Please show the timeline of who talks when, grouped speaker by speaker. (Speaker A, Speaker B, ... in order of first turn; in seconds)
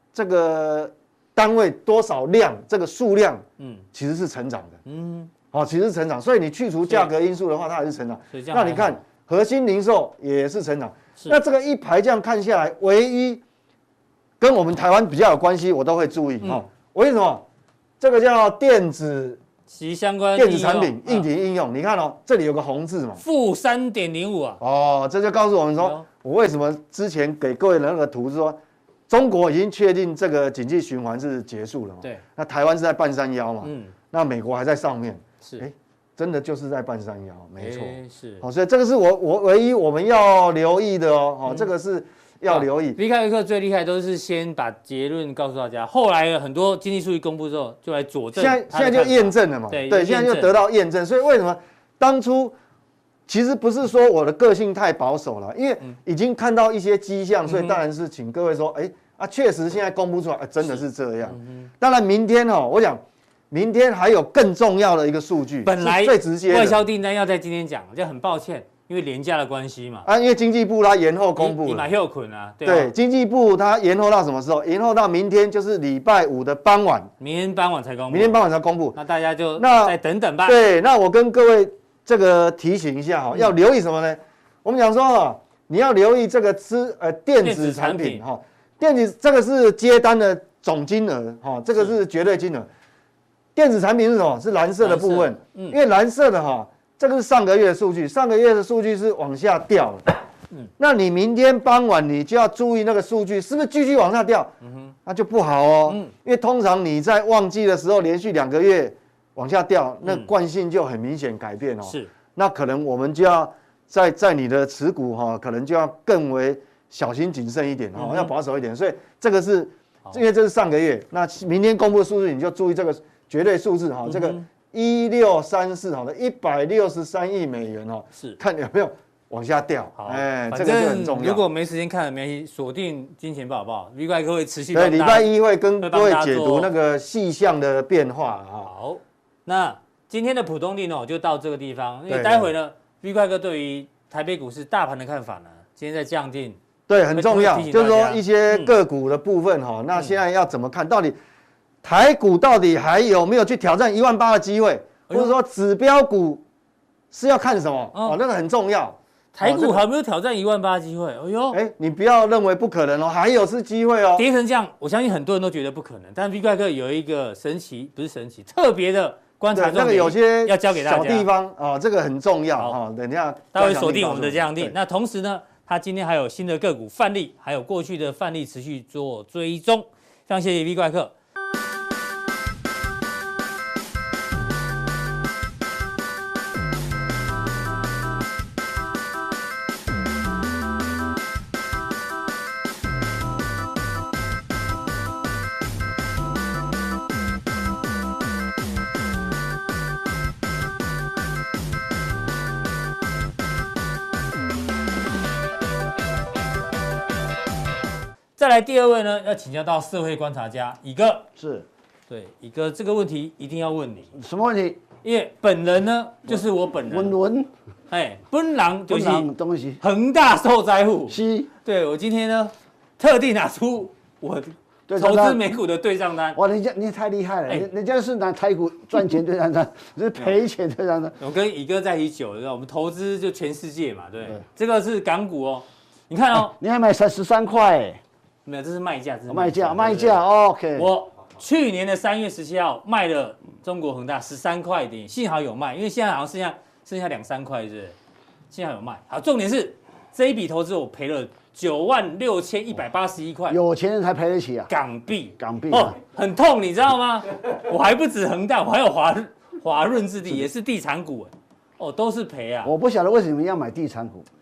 Speaker A: 0.1-4.8, 5.5-13.4, 14.4-17.4, 18.0-19.4, 20.4-23.2, 24.6-43.0, 48.4-52.5, 53.3-66.8, 70.1-71.9, 72.6-77.1, 78.1-79.0, 79.6-92.7, 93.5-100.1, 100.8-104.5, 105.1-131.4, 134.7-138.7, 142.1-142.5, 146.9-151.2, 151.8-156.4, 157.1-159.8, 161.5-164.3, 169.5-174.8
Speaker B: 3.6-3.9, 4.9-5.3, 8.3-9.0, 19.7-21.3, 23.2-24.6, 25.8-26.1, 33.6-33.9, 37.6-38.4, 42.5-50.6, 57.5-57.8, 60.6-61.7, 65.7-70.1, 71.4-72.9, 77.2-78.4, 79.0-80.6, 87.4-88.2, 94.8-95.8, 104.6-104.9, 105.9-106.1, 110.0-110.3, 111.8-112.1, 118.0-118.3, 124.1-124.5, 130.0-135.3, 135.8-136.7, 138.6-146.6, 147.1-148.7, 159.3-161.6, 164.2-171.3, 173.5-181.1, 208.4-211.3, 212.1-214.1, 215.0-217.2, 217.9-219.3, 219.8-226.4, 231.2-236.6, 238.4-240.2, 240.8-248.0, 248.5-253.6, 254.7-262.7
Speaker C: 211.4-211.7, 214.2-214.8, 216.3-217.5, 218.9-219.8, 221.1-221.5, 224.9-225.4, 226.3-231.2, 236.4-238.0, 239.3-240.9, 253.5-254.7, 255.4-256.0, 262.6-264.3